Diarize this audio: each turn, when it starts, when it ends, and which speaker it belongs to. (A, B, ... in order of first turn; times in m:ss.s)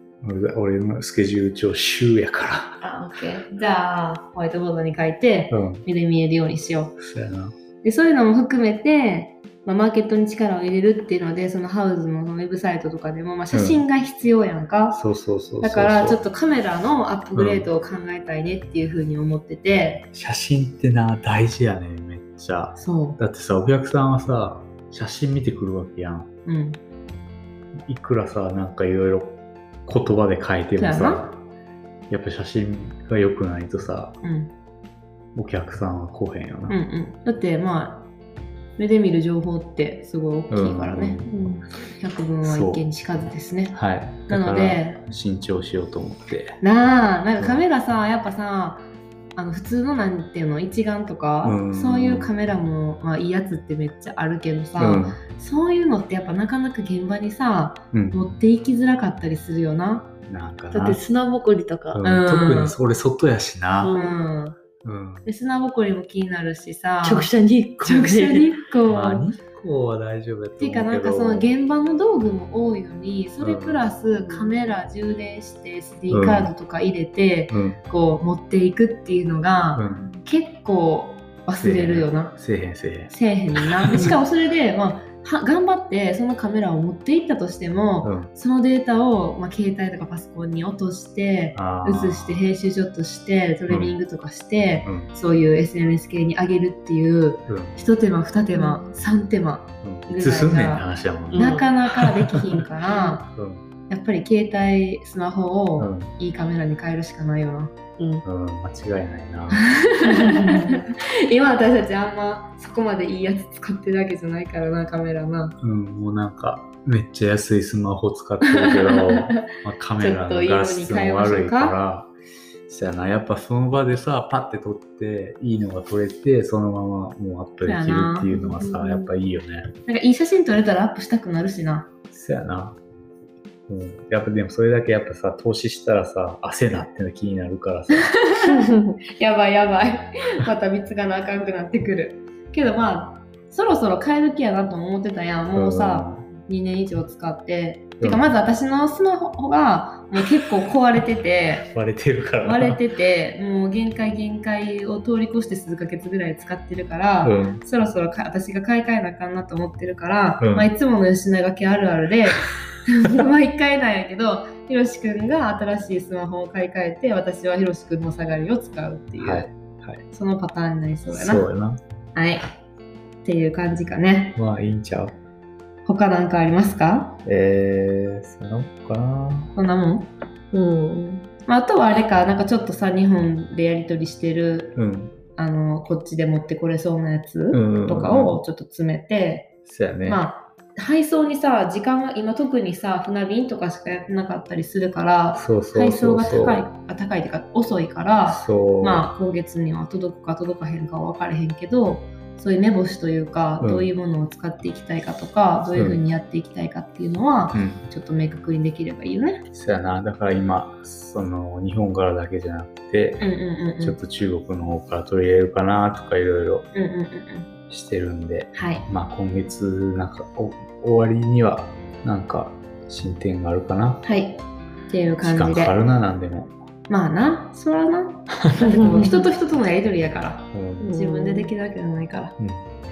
0:00.2-0:02.8 A
0:02.8-0:07.0 B
0:05.5-0:05.8 A
0:07.0-0:07.5 A
0:07.8-0:15.0 B
0:13.5-0:13.8 A
0:14.9-0:16.2 A
0:15.6-0:20.1 B
0:17.4-0:17.7 A
0:20.1-0:26.3 A
0:22.8-0:23.2 B
0:26.4-0:26.8 B
0:27.8-0:31.4 A
0:30.8-0:31.3 B
0:32.1-0:34.2 A
0:34.2-0:34.5 B
0:35.3-0:36.8 A
0:36.7-0:38.1 B
0:38.8-0:41.4 B
0:40.5-0:41.3 A
0:41.3-0:41.6 C
0:42.0-0:45.0 B
0:42.4-0:42.8 A
0:43.7-0:46.6 A
0:46.6-1:00.1 B
0:51.4-0:52.3 A
0:54.8-0:55.2 A
0:57.9-0:58.2 A
1:00.3-1:01.0 A
1:00.7-1:02.0 C
1:01.9-1:03.9 A
1:02.0-1:02.8 B
1:03.8-1:04.1 C
1:03.9-1:04.6 B
1:04.8-1:05.3 A
1:05.2-1:07.3 B
1:07.0-1:08.5 C
1:07.8-1:09.3 B
1:08.9-1:11.5 A
1:10.6-1:22.4 B
1:13.4-1:13.9 A
1:16.1-1:16.5 A
1:17.5-1:17.8 A
1:19.7-1:20.1 A
1:21.6-1:24.2 A
1:23.1-1:43.3 B
1:28.0-1:28.3 A
1:31.5-1:32.4 A
1:33.7-1:33.9 A
1:34.8-1:35.1 A
1:37.5-1:37.8 A
1:38.5-1:38.9 C
1:39.8-1:42.6 A
1:41.3-1:41.6 C
1:43.3-1:43.6 A
1:43.9-1:47.7 B
1:45.8-1:46.1 A
1:48.0-1:48.2 C
1:48.2-1:49.7 A
1:49.6-1:55.6 B
1:50.0-1:50.8 C
1:55.6-2:02.1 A
1:58.4-1:59.4 B
2:00.0-2:01.8 B
2:02.7-2:09.7 A
2:07.6-2:08.3 B
2:08.3-2:09.1 C
2:09.8-2:11.9 B
2:12.1-2:12.8 A
2:13.7-2:18.2 A
2:17.9-2:31.7 B
2:18.6-2:19.0 C
2:25.5-2:26.3 A
2:28.0-2:28.2 A
2:31.7-2:32.8 A
2:32.4-2:49.5 B
2:37.2-2:37.6 A
2:40.4-2:40.7 A
2:49.2-2:50.0 A
2:50.1-2:51.5 B
2:51.1-2:51.8 A
2:52.1-2:52.4 B
2:53.2-2:54.4 B
2:54.4-2:55.2 A
2:55.8-2:57.2 B
2:57.2-2:59.5 A
2:59.5-3:00.1 B
3:00.5-3:01.3 C
3:01.4-3:04.8 B
3:04.8-3:05.2 A
3:05.3-3:09.5 B
3:07.5-3:08.4 A
3:09.7-3:10.2 A
3:10.0-3:29.4 B
3:15.4-3:16.6 A
3:18.3-3:19.1 A
3:23.6-3:23.9 A
3:25.7-3:26.0 A
3:27.5-3:27.8 A
3:29.5-3:33.3 A
3:33.2-3:34.0 B
3:33.8-3:36.7 A
3:36.7-3:37.5 B
3:37.7-3:44.0 A
3:38.5-3:38.8 B
3:44.0-3:45.7 B
3:45.2-3:46.5 A
3:46.9-3:52.4 B
3:48.4-3:49.1 A
3:48.6-3:49.2 C
3:50.5-3:50.9 A
3:50.8-3:51.5 C
3:52.4-3:52.6 A